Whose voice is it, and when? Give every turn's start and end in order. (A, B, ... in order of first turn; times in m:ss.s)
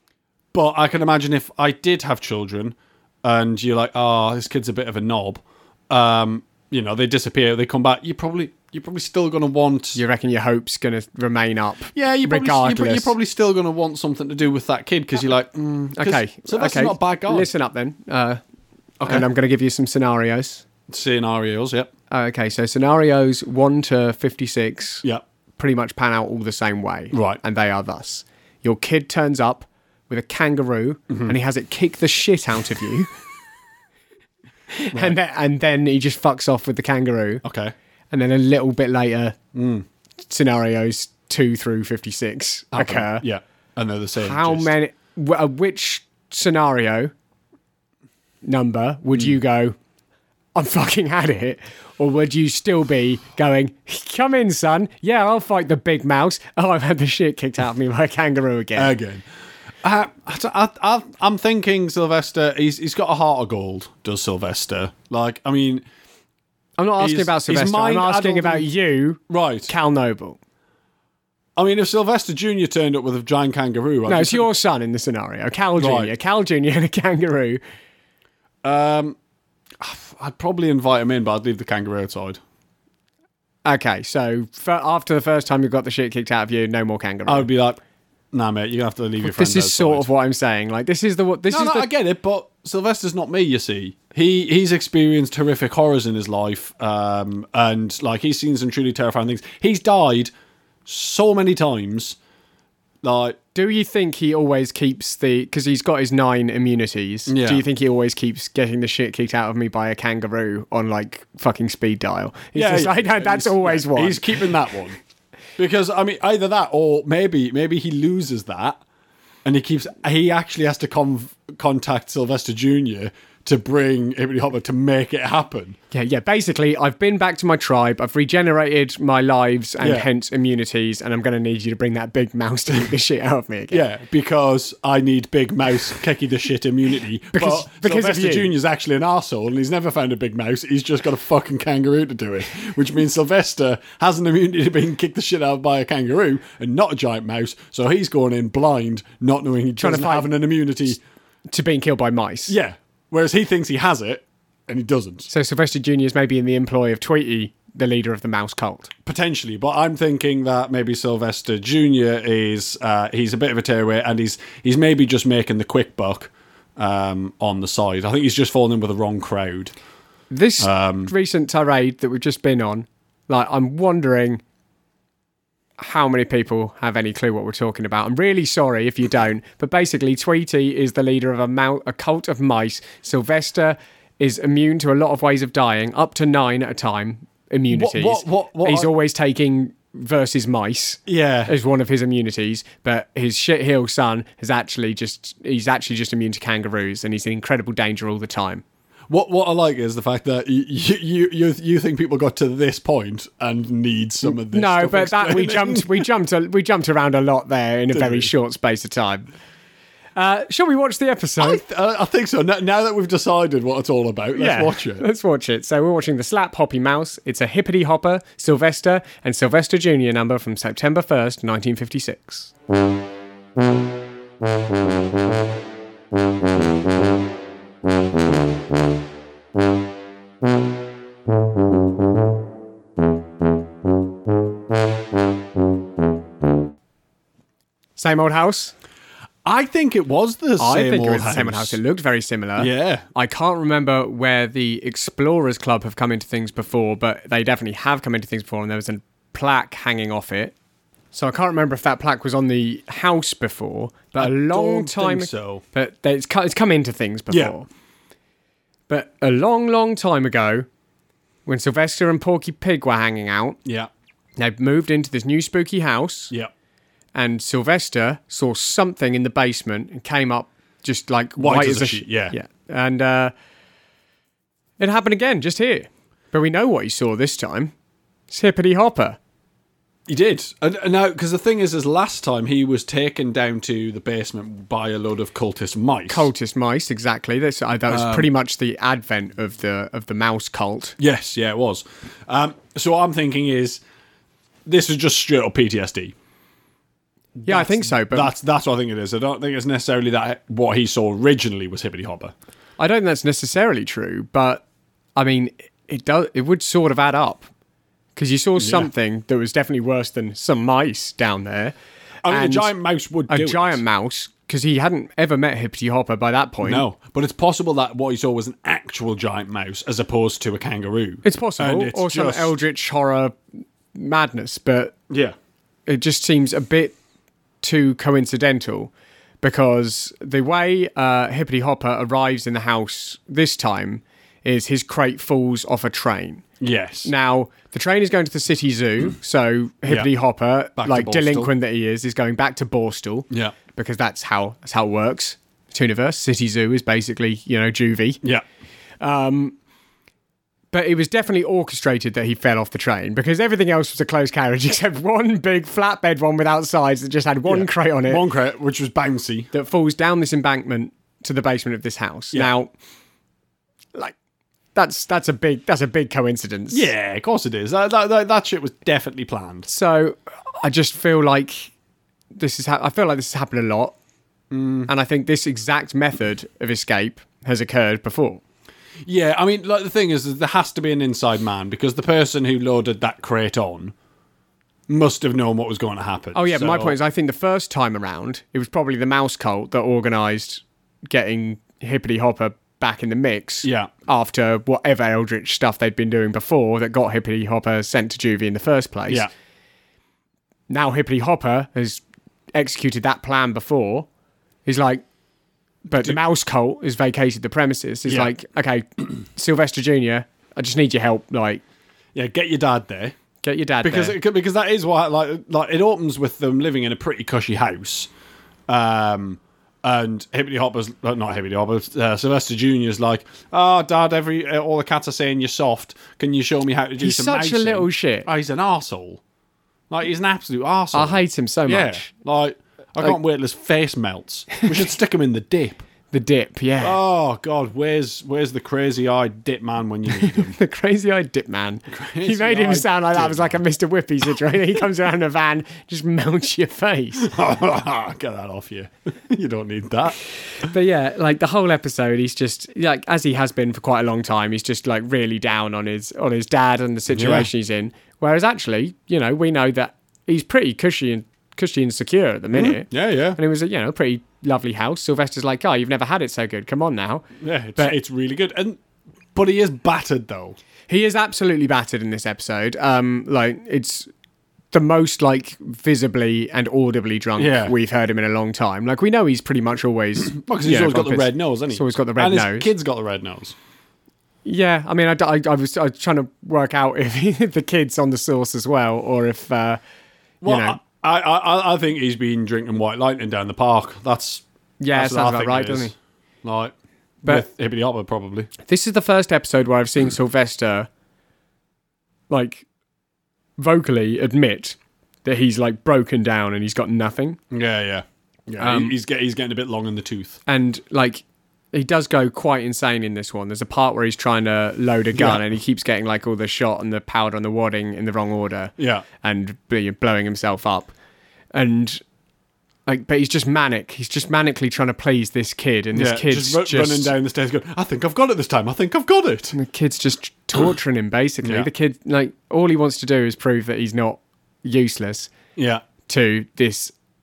0:00.5-0:10.0 A
0:09.9-0:13.1 B
0:11.9-0:17.5 A
0:16.0-0:18.4 B
0:19.0-0:19.3 A
0:19.0-0:20.6 B
0:20.9-0:21.9 A
0:22.1-0:25.0 B
0:25.6-0:33.1 B
0:27.1-0:27.4 A
0:31.1-0:31.3 A
0:34.7-0:37.4 B
0:37.4-0:37.7 A
0:38.1-0:39.4 B
0:39.5-0:39.8 A
0:40.3-0:43.2 B
0:42.7-0:44.7 A
0:44.2-0:47.1 B
0:48.4-0:49.8 B
0:50.5-0:58.9 B
0:58.8-0:59.2 A
0:59.8-1:05.8 A
1:06.8-1:10.4 B
1:07.0-1:08.7 A
1:09.3-1:09.7 A
1:11.6-1:14.5 A
1:14.1-1:17.6 B
1:15.8-1:16.1 A
1:18.6-1:19.2 A
1:19.8-1:22.4 A
1:23.6-1:27.5 B
1:27.2-1:27.8 A
1:28.3-1:30.1 A
1:29.2-1:31.9 B
1:31.5-1:40.3 A
1:40.8-1:42.2 A
1:43.0-1:43.4 A
1:43.5-1:54.3 B
1:47.3-1:47.6 A
1:52.5-1:55.0 A
1:55.6-1:58.8 A
1:59.4-2:05.8 A
2:05.9-2:13.8 B
2:09.8-2:10.1 A
2:13.7-2:31.0 A
2:17.3-2:18.5 B
2:29.8-2:30.3 B
2:31.5-2:32.5 B
2:32.5-2:35.3 A
2:35.3-2:38.9 B
2:39.0-2:49.7 A
2:50.3-2:54.4 B
2:50.6-2:51.1 A
2:55.8-3:18.6 B
3:07.7-3:08.9 A
3:11.0-3:11.5 A
3:19.1-3:26.1 A
3:24.2-3:29.3 B
3:27.9-3:28.3 A
3:30.2-3:31.6 B
3:31.4-3:35.0 A
3:34.3-3:42.5 B
3:58.0-3:58.7 B
3:59.4-4:01.8 A
4:00.6-4:10.5 B
4:02.6-4:03.0 A
4:11.1-4:17.7 B
4:14.1-4:15.6 A
4:17.3-4:17.5 A
4:18.9-4:20.6 B
4:21.4-4:23.6 B
4:23.6-4:23.9 A
4:24.4-4:26.3 B
4:27.1-4:33.3 B
4:31.4-4:32.3 A
4:34.8-4:37.7 B
4:38.3-4:39.2 B
4:40.1-4:46.3 A
4:46.1-4:51.0 B
4:47.9-4:48.3 A
4:51.0-4:53.8 A
4:54.6-4:56.1 A
4:57.4-5:02.3 A
4:57.4-4:58.3 B
5:02.8-5:04.6 B
5:05.2-5:07.5 B
5:08.2-5:11.7 B
5:08.6-5:08.9 A
5:12.2-5:13.8 A
5:12.3-5:12.7 B
5:13.3-5:16.8 B
5:16.6-5:22.6 A
5:21.2-5:23.4 B
5:23.9-5:25.0 B
5:25.1-5:25.3 A
5:25.9-5:27.0 B
5:27.6-5:36.4 B
5:36.6-5:37.1 A
5:37.0-5:48.2 B
5:40.8-5:41.5 A
5:43.3-5:43.5 A
5:49.0-5:49.6 B
5:50.7-5:58.2 B
5:57.4-5:59.5 A
5:59.5-6:02.7 B
6:04.7-6:06.9 B
6:06.7-6:09.7 A
6:09.7-6:11.7 B
6:12.3-6:13.9 B
6:14.5-6:14.9 A
6:14.9-6:18.4 B
6:19.0-6:23.9 A
6:24.9-6:27.0 A
6:26.3-6:39.3 B
6:33.6-6:33.9 A
6:40.7-6:42.0 B
6:42.5-6:44.1 B
6:44.6-6:45.0 B
6:45.8-6:51.6 B
6:48.0-6:48.3 A
6:52.1-6:53.1 A
6:53.4-6:54.2 B
6:53.8-6:58.1 A
6:58.7-7:09.2 A
7:07.0-7:08.3 B
7:09.9-7:15.8 A
7:10.9-7:12.1 B
7:16.1-7:17.0 B
7:16.8-7:20.6 A
7:20.2-7:27.3 B
7:21.9-7:23.6 A
7:27.2-7:30.2 A
7:30.6-7:47.3 B
7:37.1-7:37.5 A
7:42.5-7:43.4 A
7:47.4-7:48.8 A
7:49.3-7:50.6 A
7:50.9-7:54.1 B
7:54.7-8:02.7 B
7:57.4-7:57.7 A
8:00.2-8:03.5 A
8:04.4-8:09.8 B
8:10.4-8:15.9 A
8:10.4-8:10.8 B
8:14.8-8:15.9 B
8:16.4-8:16.7 A
8:17.2-8:18.5 A
8:18.6-8:20.9 B
8:22.3-8:22.6 B
8:23.6-8:27.4 B
8:27.5-8:30.4 A
8:28.6-8:28.9 B
8:30.5-8:40.9 B
8:35.1-8:35.4 A
8:38.8-8:39.0 A
8:41.5-8:42.0 B
8:42.9-8:47.1 B
8:45.9-8:49.5 A
8:49.5-8:55.3 B
8:51.4-8:51.7 A
8:55.6-8:55.8 A
8:56.1-8:56.9 B